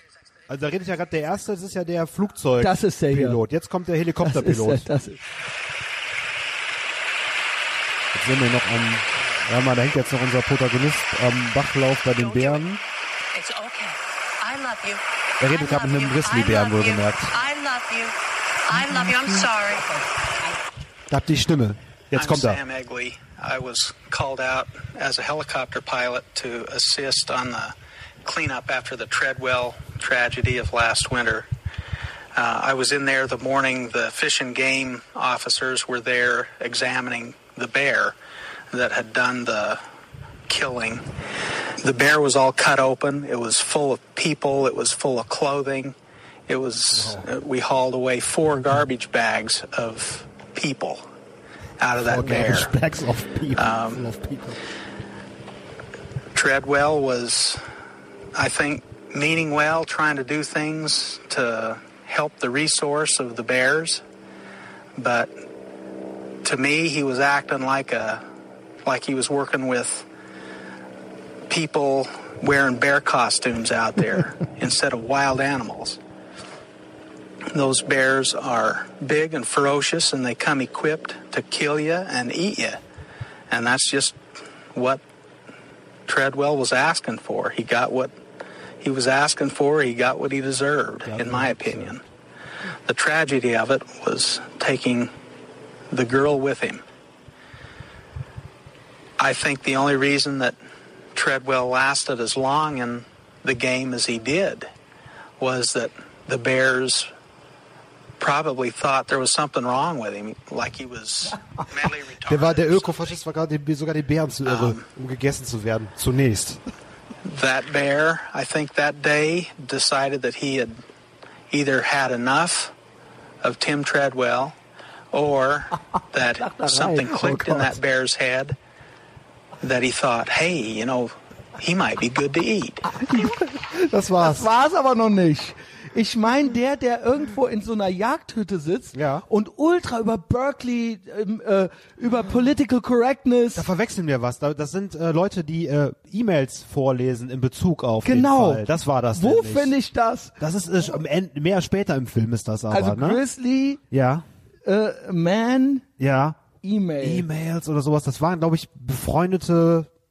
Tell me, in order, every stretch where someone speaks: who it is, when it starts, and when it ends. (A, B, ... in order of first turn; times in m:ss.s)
0:00.5-0:04.9 A
0:02.6-0:03.4 B
0:04.2-0:05.2 B
0:08.1-0:12.8 A
0:12.2-0:12.6 C
0:13.3-0:18.1 C
0:15.4-0:17.3 A
0:18.6-0:20.0 C
0:21.1-0:22.6 A
0:22.1-0:31.5 D
0:32.3-0:38.2 D
0:38.7-0:39.8 D
0:40.5-0:41.0 D
0:41.8-0:46.0 D
0:46.5-0:51.0 D
0:46.9-0:47.3 A
0:51.8-0:52.7 D
0:52.0-0:54.6 A
0:53.5-0:54.0 D
0:56.3-0:57.6 D
0:58.3-1:04.0 D
1:05.0-1:05.3 D
1:06.4-1:08.2 D
1:08.8-1:10.1 D
1:11.5-1:16.0 D
1:17.5-1:22.8 D
1:23.5-1:24.2 D
1:24.7-1:25.0 D
1:26.1-1:28.1 D
1:28.8-1:32.0 D
1:31.0-1:31.9 A
1:32.8-1:35.1 D
1:35.9-1:36.8 D
1:39.2-1:40.6 D
1:41.1-1:44.7 D
1:45.4-1:47.1 D
1:48.2-1:53.1 D
1:52.2-1:56.6 A
1:54.4-1:54.8 D
1:57.2-2:00.8 D
2:01.5-2:02.7 D
2:03.4-2:04.6 D
2:05.1-2:08.6 D
2:06.4-2:07.8 B
2:09.6-2:13.1 D
2:13.0-2:23.6 B
2:13.8-2:14.5 A
2:18.9-2:19.2 A
2:23.5-2:29.7 A
2:28.0-2:30.4 B
2:30.4-2:33.2 A
2:32.7-2:33.8 B
2:33.9-2:34.2 A
2:34.6-2:35.9 B
2:36.0-2:36.4 A
2:36.6-2:37.2 B
2:37.0-2:39.9 A